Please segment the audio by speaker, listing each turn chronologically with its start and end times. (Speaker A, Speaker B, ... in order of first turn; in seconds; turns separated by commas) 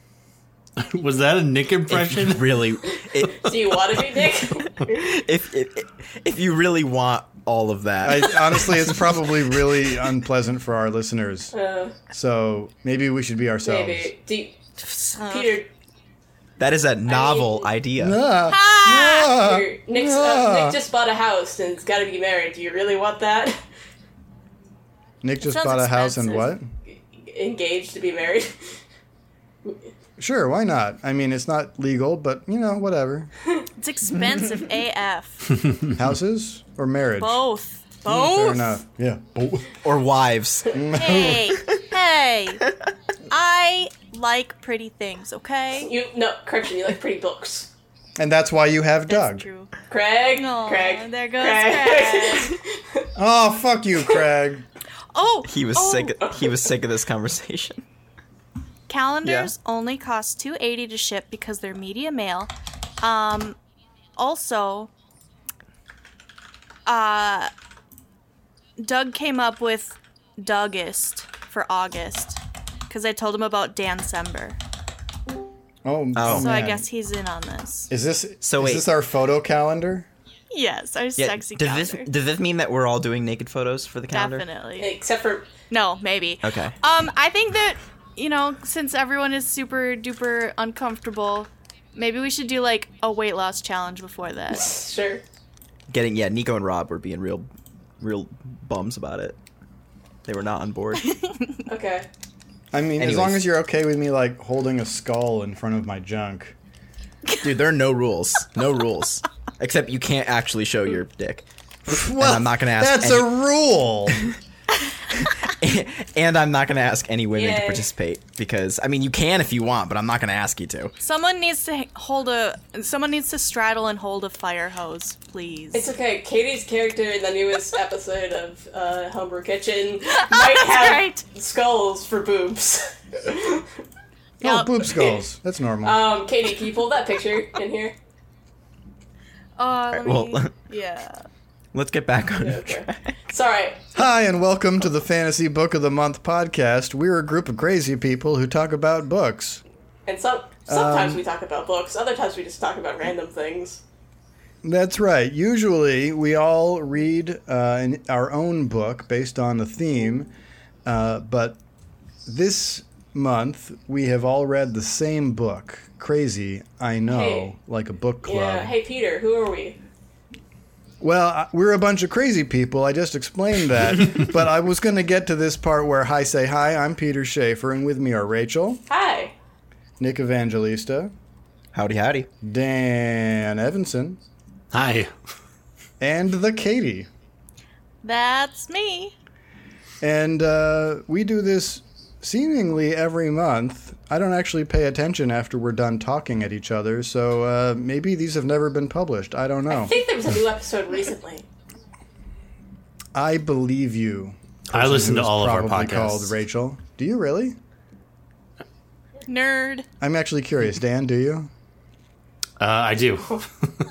Speaker A: 0.8-2.7, Speaker B: 1.9-4.0, Speaker C: 3.4-4.9, Speaker B: 4.6-9.3, Speaker D: 8.0-11.6, Speaker C: 11.5-12.0, Speaker D: 12.1-14.1, Speaker C: 13.7-14.6, Speaker E: 14.9-15.6, Speaker C: 15.2-15.7, Speaker B: 16.6-18.2, Speaker C: 17.1-17.7, Speaker D: 18.0-20.8, Speaker E: 18.4-19.3, Speaker C: 19.2-23.6, Speaker D: 25.2-26.7, Speaker E: 25.4-26.6, Speaker C: 26.9-28.8, Speaker D: 30.2-33.3, Speaker E: 33.8-35.7, Speaker D: 35.9-37.4, Speaker E: 37.2-38.8, Speaker D: 38.0-39.8, Speaker B: 39.8-41.8, Speaker D: 40.7-41.4, Speaker E: 41.0-42.6, Speaker E: 43.3-45.9, Speaker C: 45.8-47.7, Speaker D: 48.2-49.5, Speaker E: 49.1-49.7, Speaker C: 49.9-53.1, Speaker E: 50.3-52.6, Speaker D: 53.2-54.7, Speaker E: 55.1-56.2, Speaker B: 55.5-57.9, Speaker E: 58.9-63.6, Speaker B: 59.2-59.5, Speaker E: 64.2-64.9, Speaker E: 66.9-67.5, Speaker E: 68.8-74.6, Speaker D: 75.8-76.9, Speaker B: 76.2-76.5, Speaker E: 76.3-77.9, Speaker D: 77.9-80.1, Speaker B: 78.4-78.9, Speaker E: 80.5-82.1, Speaker B: 81.2-84.5, Speaker E: 84.1-84.9, Speaker C: 84.8-85.5, Speaker E: 85.7-94.7, Speaker B: 86.4-86.8, Speaker C: 94.5-95.2, Speaker B: 95.9-97.5, Speaker B: 98.0-99.4, Speaker B: 100.3-101.1, Speaker C: 101.7-102.1, Speaker D: 102.7-106.6, Speaker B: 103.0-103.5, Speaker B: 107.4-111.5, Speaker D: 111.9-114.3, Speaker B: 112.1-113.3, Speaker B: 115.1-120.9, Speaker C: 117.3-117.9, Speaker E: 121.0-125.9, Speaker C: 125.7-133.7, Speaker E: 130.1-131.2, Speaker E: 134.4-134.9, Speaker D: 134.4-136.1, Speaker C: 135.8-138.0, Speaker E: 139.6-141.2, Speaker B: 139.9-140.5, Speaker B: 141.7-143.2, Speaker C: 142.4-143.9, Speaker D: 143.9-149.6, Speaker C: 150.1-153.8, Speaker D: 150.7-151.2, Speaker D: 154.6-160.3, Speaker D: 160.9-161.6, Speaker D: 162.3-168.7, Speaker C: 167.1-167.5, Speaker C: 168.2-169.8, Speaker D: 171.0-178.8, Speaker C: 178.9-179.3, Speaker D: 180.0-181.1, Speaker B: 181.7-182.3, Speaker D: 182.4-184.2, Speaker A: 184.7-185.1, Speaker D: 186.0-187.1, Speaker E: 188.0-189.1, Speaker D: 190.0-199.9, Speaker C: 199.7-201.4, Speaker D: 203.2-207.6, Speaker A: 204.7-206.3, Speaker E: 209.3-209.9, Speaker D: 210.0-211.5, Speaker A: 212.6-213.7